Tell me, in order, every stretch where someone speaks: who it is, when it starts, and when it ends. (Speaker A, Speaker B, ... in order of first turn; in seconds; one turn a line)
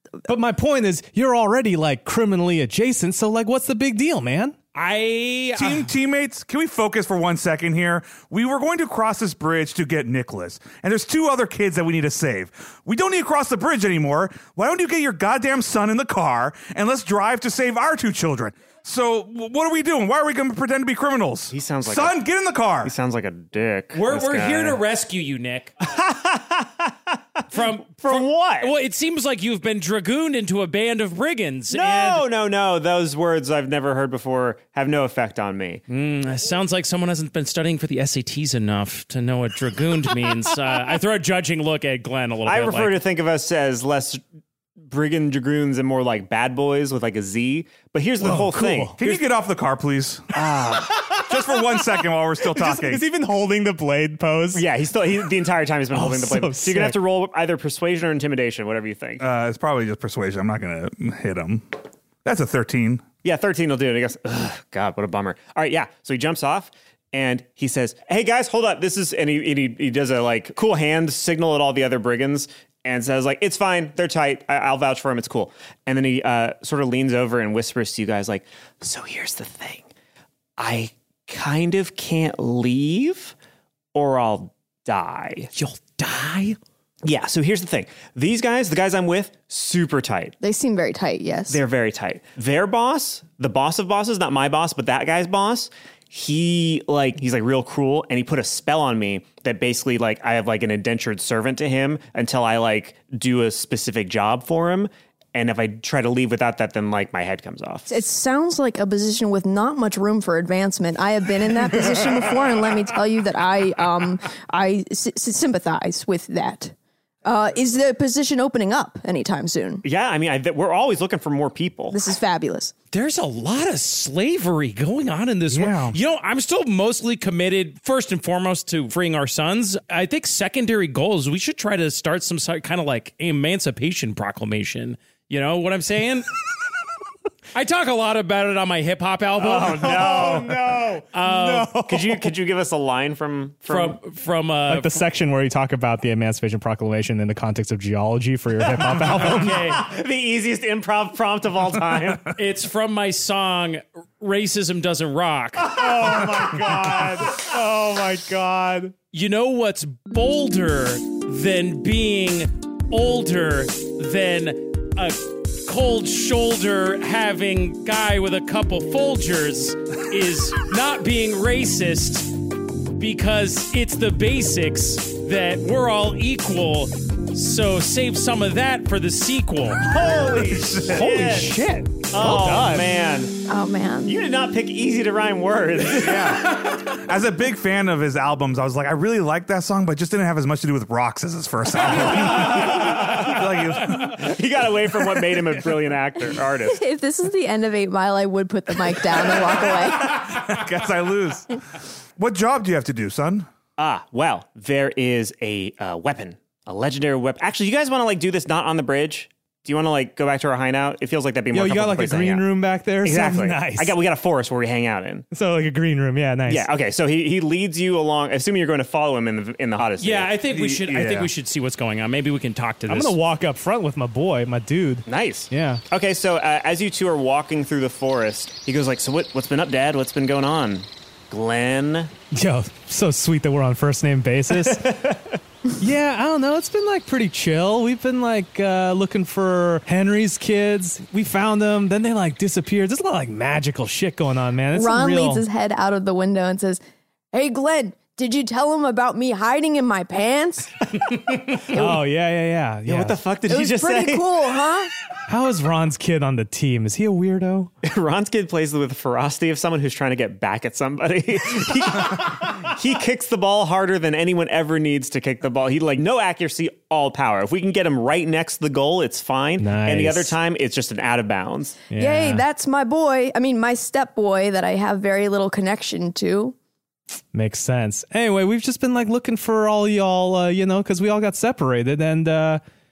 Speaker A: 0.3-4.6
Speaker B: 4.8-5.9
Speaker C: 5.6-22.9
Speaker D: 21.5-22.2
Speaker D: 22.8-24.8
Speaker B: 23.9-25.7
Speaker D: 25.9-26.9
Speaker B: 27.5-32.3
Speaker D: 27.5-28.7
Speaker D: 31.7-35.8
Speaker B: 35.9-43.0
Speaker D: 42.5-44.2
Speaker D: 44.9-49.2
Speaker A: 48.2-49.0
Speaker C: 49.0-50.3
Speaker D: 50.3-51.0
Speaker A: 50.7-54.6
Speaker C: 51.1-53.0
Speaker D: 54.5-59.2
Speaker A: 55.9-57.0
Speaker C: 59.2-63.0
Speaker D: 63.2-79.9
Speaker D: 80.6-83.3
Speaker D: 83.9-85.5
Speaker B: 85.6-86.6
Speaker D: 87.0-90.4
Speaker E: 90.4-91.6
Speaker D: 91.5-107.9
Speaker E: 107.9-116.7
Speaker E: 117.2-119.8
Speaker D: 119.8-122.0
Speaker E: 121.9-122.7
Speaker B: 122.9-136.3
Speaker C: 125.5-126.0
Speaker B: 137.5-140.2
Speaker D: 139.4-140.6
Speaker A: 139.6-142.3
Speaker B: 141.1-141.8
Speaker D: 141.8-144.0
Speaker B: 143.7-145.0
Speaker A: 144.7-149.7
Speaker D: 148.9-152.3
Speaker B: 149.2-149.8
Speaker B: 152.3-155.8
Speaker A: 155.6-158.9
Speaker B: 159.1-172.3
Speaker B: 173.0-179.9
Speaker D: 179.8-181.6
Speaker C: 180.4-181.0
Speaker A: 180.9-182.9
Speaker D: 182.1-183.3
Speaker E: 183.5-184.2
Speaker D: 184.1-186.6
Speaker C: 185.9-194.2
Speaker D: 192.7-193.3
Speaker D: 194.0-196.8
Speaker E: 196.7-200.3
Speaker C: 199.6-201.5
Speaker C: 202.2-203.5
Speaker D: 203.8-212.5
Speaker A: 211.5-214.0
Speaker D: 213.0-215.3
Speaker A: 215.3-216.7
Speaker D: 216.5-220.4
Speaker B: 220.0-223.2
Speaker C: 220.5-221.3
Speaker A: 222.9-225.8
Speaker D: 225.1-232.1
Speaker A: 232.3-235.0
Speaker D: 234.5-235.4
Speaker A: 235.8-245.4
Speaker E: 244.7-246.8
Speaker E: 247.3-250.7
Speaker E: 251.7-252.1
Speaker A: 251.7-253.2
Speaker D: 252.9-254.3
Speaker E: 253.5-254.9
Speaker A: 255.3-257.7
Speaker D: 257.8-271.8
Speaker A: 269.6-270.4
Speaker A: 271.9-272.4
Speaker E: 271.9-276.6
Speaker A: 277.3-282.6